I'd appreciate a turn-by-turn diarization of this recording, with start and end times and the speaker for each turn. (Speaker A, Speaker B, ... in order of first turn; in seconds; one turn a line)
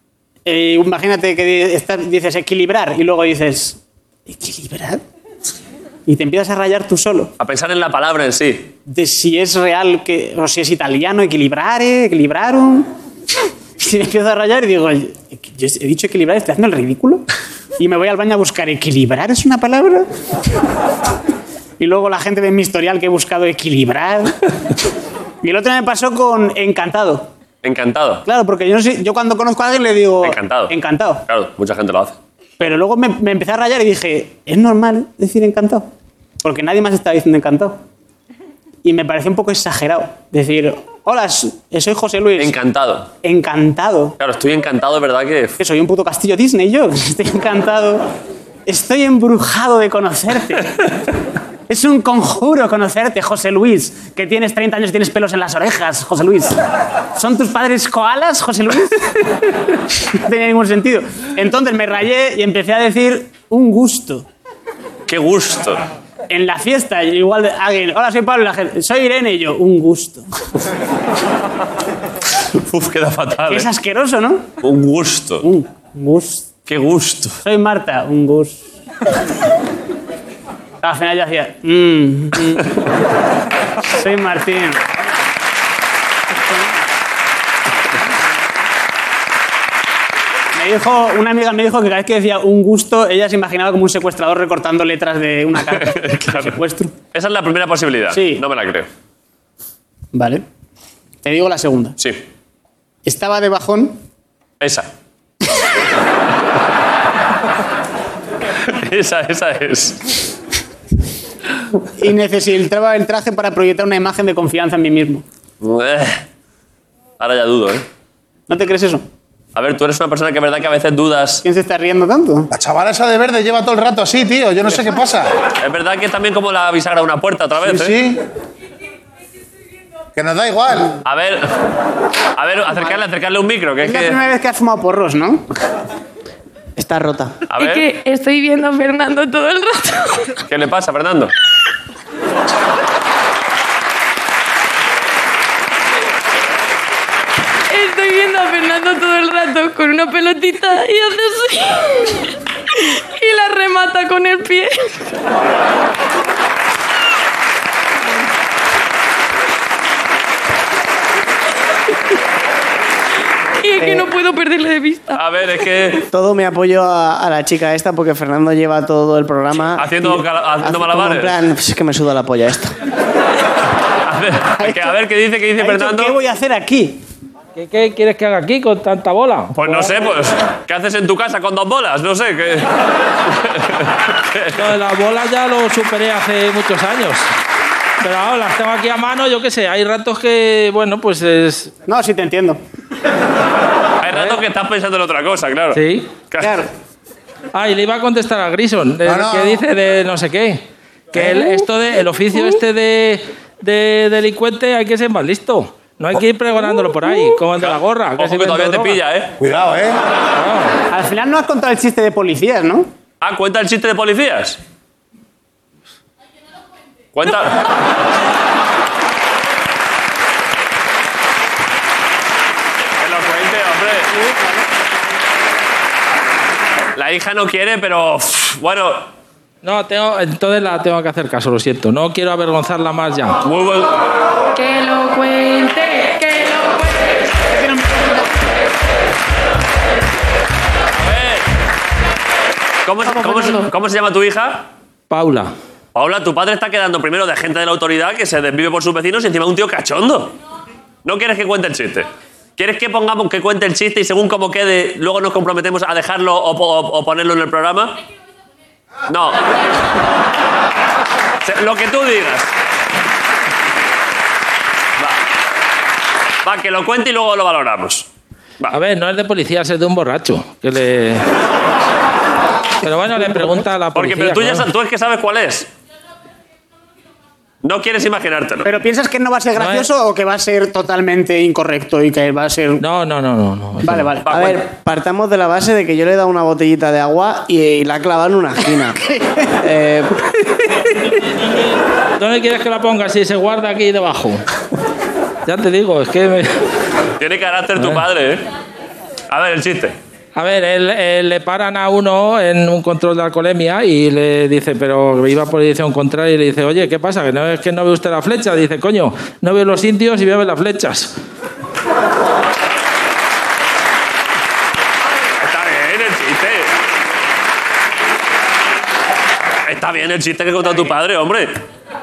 Speaker A: 0.5-5.0
Speaker A: 6.1-7.3
Speaker B: 7.4-8.7
Speaker A: 8.9-12.9
Speaker A: 13.8-17.2
Speaker A: 17.8-20.1
Speaker A: 21.8-24.4
Speaker A: 25.4-27.3
Speaker B: 27.6-28.2
Speaker A: 28.3-31.2
Speaker B: 30.2-32.2
Speaker A: 32.6-35.9
Speaker A: 36.4-37.8
Speaker A: 38.8-42.6
Speaker B: 42.4-43.1
Speaker A: 43.2-44.1
Speaker B: 44.2-45.6
Speaker A: 45.6-48.1
Speaker A: 48.7-50.7
Speaker A: 51.7-56.6
Speaker A: 57.1-59.2
Speaker A: 60.2-64.2
Speaker B: 65.1-65.8
Speaker A: 66.3-70.3
Speaker B: 72.5-73.7
Speaker A: 73.5-74.5
Speaker B: 74.6-75.5
Speaker A: 75.4-76.5
Speaker B: 76.7-77.4
Speaker A: 77.4-78.6
Speaker A: 80.8-82.7
Speaker A: 83.9-84.8
Speaker A: 86.3-86.7
Speaker A: 90.5-96.9
Speaker B: 95.7-96.6
Speaker B: 97.1-98.9
Speaker A: 98.1-98.4
Speaker A: 100.1-100.5
Speaker A: 101.2-102.0
Speaker A: 103.0-104.0
Speaker B: 104.6-104.9
Speaker B: 108.7-110.3
Speaker A: 112.0-115.2
Speaker B: 115.6-116.2
Speaker B: 117.2-117.8
Speaker A: 118.5-119.0
Speaker B: 119.5-121.4
Speaker A: 121.4-122.5
Speaker C: 122.5-125.3
Speaker B: 125.6-128.0
Speaker C: 127.6-128.2
Speaker C: 130.2-131.0
Speaker B: 131.1-131.5
Speaker B: 132.4-134.2
Speaker A: 133.8-135.4
Speaker D: 136.8-137.3
Speaker B: 137.5-137.9
Speaker E: 137.6-140.3
Speaker B: 140.5-141.3
Speaker E: 147.7-152.0
Speaker E: 152.8-155.0
Speaker E: 163.6-165.2
Speaker D: 163.8-164.1
Speaker B: 165.1-166.1
Speaker D: 166.1-172.7
Speaker B: 169.8-171.3
Speaker B: 174.1-176.2
Speaker A: 174.6-175.0
Speaker A: 175.6-177.0
Speaker F: 177.6-179.9
Speaker B: 179.5-182.7
Speaker B: 183.3-184.5
Speaker F: 184.5-187.3
Speaker F: 188.0-191.7
Speaker A: 191.9-192.6
Speaker B: 194.0-195.8
Speaker F: 194.1-194.4
Speaker F: 195.7-196.1
Speaker B: 196.3-196.7
Speaker A: 196.4-196.7
Speaker F: 197.5-209.0
Speaker C: 199.1-199.6
Speaker B: 208.2-209.3
Speaker C: 209.4-210.0
Speaker F: 210.4-210.7
Speaker A: 210.9-212.9
Speaker B: 213.2-214.6
Speaker B: 217.2-217.6
Speaker B: 223.0-224.2
Speaker A: 224.2-224.5
Speaker B: 227.0-229.1
Speaker F: 229.6-233.4
Speaker B: 233.4-234.0
Speaker E: 234.5-237.2
Speaker A: 237.5-238.1
Speaker B: 240.9-241.5
Speaker B: 242.8-244.6
Speaker E: 243.2-243.6
Speaker F: 245.1-245.5
Speaker B: 245.9-250.3
Speaker B: 251.1-257.9
Speaker B: 259.1-259.4
Speaker B: 261.4-262.5
Speaker B: 266.4-268.1
Speaker F: 268.7-271.2
Speaker F: 272.8-274.7
Speaker B: 273.9-275.7
Speaker B: 277.6-278.7
Speaker A: 278.6-282.8
Speaker F: 279.6-279.9
Speaker F: 282.8-284.2
Speaker A: 283.8-284.3
Speaker B: 284.2-284.5
Speaker D: 284.3-289.0
Speaker D: 289.6-290.1
Speaker F: 292.2-294.4
Speaker F: 295.5-296.5
Speaker B: 297.2-298.5
Speaker B: 299.3-300.0
Speaker F: 300.4-311.1
Speaker B: 315.4-316.7
Speaker B: 319.6-321.6